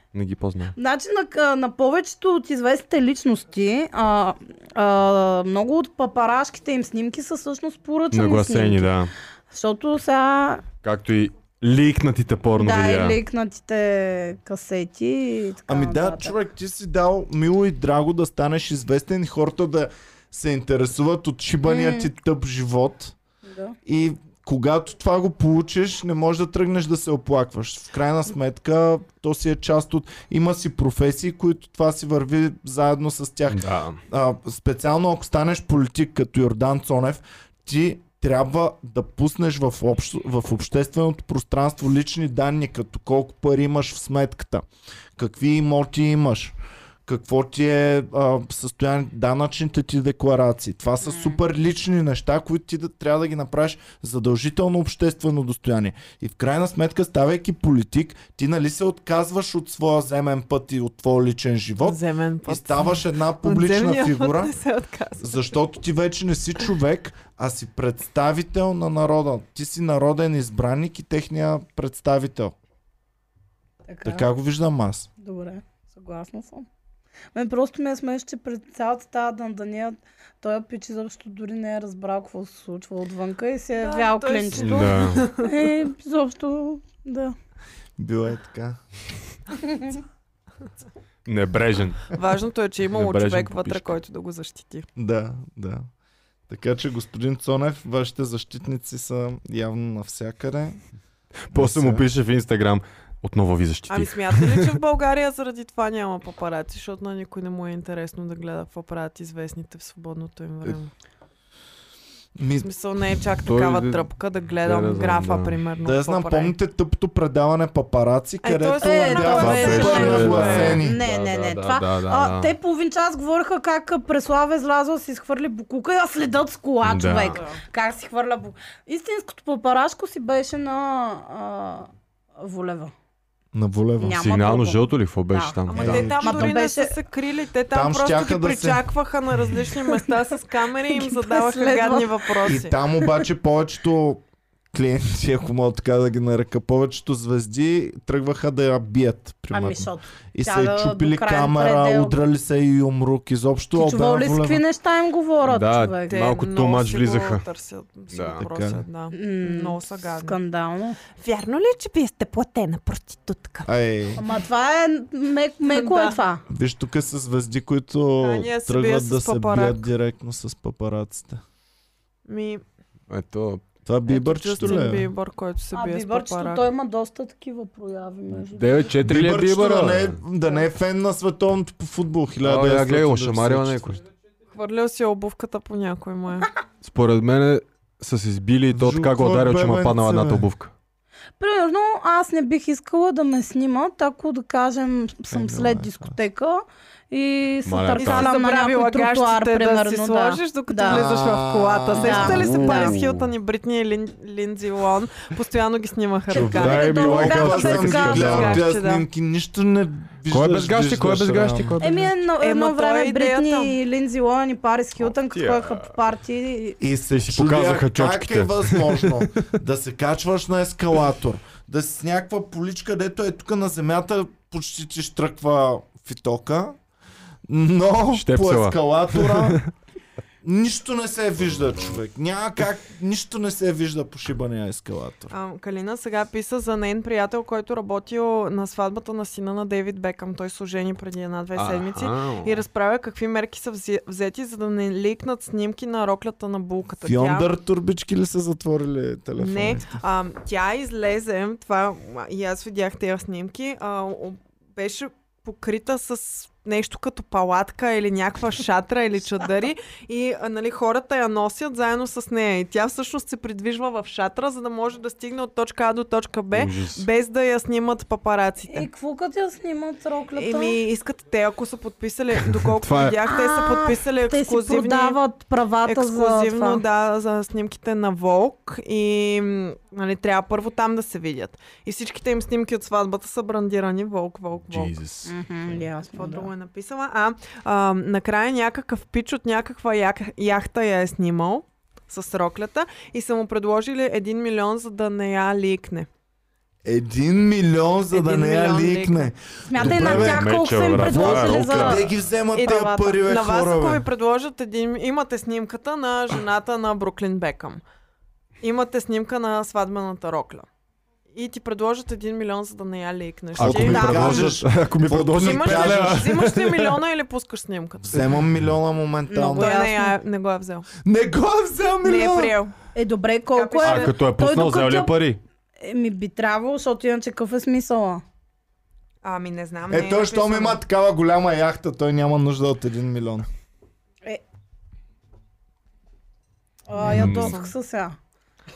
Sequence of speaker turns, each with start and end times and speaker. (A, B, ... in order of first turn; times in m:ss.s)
0:00.1-0:00.8 A
0:00.8-0:08.9 B
0:08.1-0:09.1 A
0:09.5-0:10.6 B
0:10.8-0:13.2 A
0:12.6-0:16.4 B
0:15.7-0:23.2 C
0:21.6-0:22.1 B
0:23.4-0:23.8 B
0:23.9-0:44.6 C
0:33.5-0:34.0 A
0:45.2-0:46.5 C
0:47.1-1:04.5 C
1:01.8-1:05.6 D
1:05.2-1:12.6 C
1:13.9-1:14.3 B
1:14.0-1:15.1 C
1:15.2-1:16.7 B
1:17.3-1:27.4 B
1:23.8-1:25.6 D
1:24.6-1:25.3 A
1:28.0-1:28.8 C
1:29.6-1:30.0 B
1:31.2-1:32.1 A
1:32.1-1:34.9 D
1:32.9-1:34.0 A
1:35.0-1:35.9 C
1:36.5-1:40.8 C
1:41.5-1:44.8 A
1:41.5-1:42.0 C
1:43.9-1:50.9 D
1:52.4-1:52.7 C
1:52.6-1:56.6 D
1:53.5-1:54.1 A
1:54.6-1:55.6 A
1:55.8-2:01.0 C
1:58.4-2:00.8 D
1:58.8-2:12.9 B
1:59.4-2:02.6 A
2:06.8-2:07.4 A
2:13.5-2:14.2 C
2:14.0-2:17.0 B
2:14.0-2:16.1 A
2:15.7-2:22.7 D
2:15.8-2:16.6 C
2:17.7-2:18.8 C
2:20.9-2:22.3 B
2:22.4-2:34.6 C
2:29.5-2:32.2 B
2:33.8-2:36.2 B
2:35.4-2:37.4 A
2:36.1-2:40.4 D
2:38.1-2:38.5 A
2:38.4-2:38.8 C
2:39.1-2:41.0 B
2:41.2-2:43.7 D
2:43.7-2:44.2 C
2:44.2-2:46.4 B
2:45.7-2:46.2 D
2:46.5-2:51.4 C
2:48.2-2:49.9 D
2:52.3-2:52.6 D
2:53.1-2:53.6 A
2:53.9-2:55.1 C
2:54.1-2:56.7 D
2:55.7-2:58.9 B
2:58.4-3:00.2 A
2:59.0-3:03.8 C
3:02.4-3:04.0 A
3:04.5-3:06.5 D
3:06.8-3:10.7 A
3:08.7-3:10.5 C
3:11.4-3:21.0 B
3:15.3-3:16.2 C
3:17.6-3:18.3 A
3:18.0-3:29.0 D
3:20.9-3:22.5 C
3:22.0-3:23.0 B
3:22.1-3:23.3 A
3:26.3-3:28.4 B
3:26.3-3:28.6 A
3:26.6-3:31.8 C
3:30.3-3:32.1 A
3:31.8-3:36.8 B
3:32.4-3:33.8 D
3:35.0-3:36.0 A
3:36.8-3:46.8 C
3:37.1-3:39.3 A
3:47.5-3:49.6 C
3:48.1-3:49.7 A
3:50.4-3:55.3 C
3:55.3-4:07.5 D
4:01.6-4:02.6 A
4:07.0-4:10.0 C
4:09.4-4:28.9 D
4:26.5-4:27.1 A
4:28.7-4:30.8 B
4:30.3-4:35.2 D
4:32.6-4:33.2 A
4:33.2-4:36.8 B
4:35.8-4:45.0 D
4:44.7-4:45.8 A
4:45.3-4:46.5 B
4:46.1-4:56.1 D
4:56.8-5:04.0 C
4:58.1-4:59.3 D
4:59.7-5:02.1 B
4:59.8-5:02.1 A
5:02.6-5:07.8 D
5:08.6-5:10.7 D
5:11.3-5:14.4 D
5:13.6-5:16.3 C
5:13.6-5:17.0 A
5:13.9-5:14.5 B
5:15.3-5:18.4 D
5:18.1-5:19.7 C
5:19.3-5:20.2 B
5:19.6-5:20.9 D
5:21.0-5:22.6 C
5:22.0-5:22.7 D
5:23.0-5:25.1 B
5:23.5-5:24.2 D
5:23.8-5:25.4 A
5:25.8-5:28.2 B
5:29.2-5:30.8 D
5:29.9-5:33.5 C
5:36.9-5:38.2 B
5:37.0-5:37.7 D
5:37.1-5:37.6 A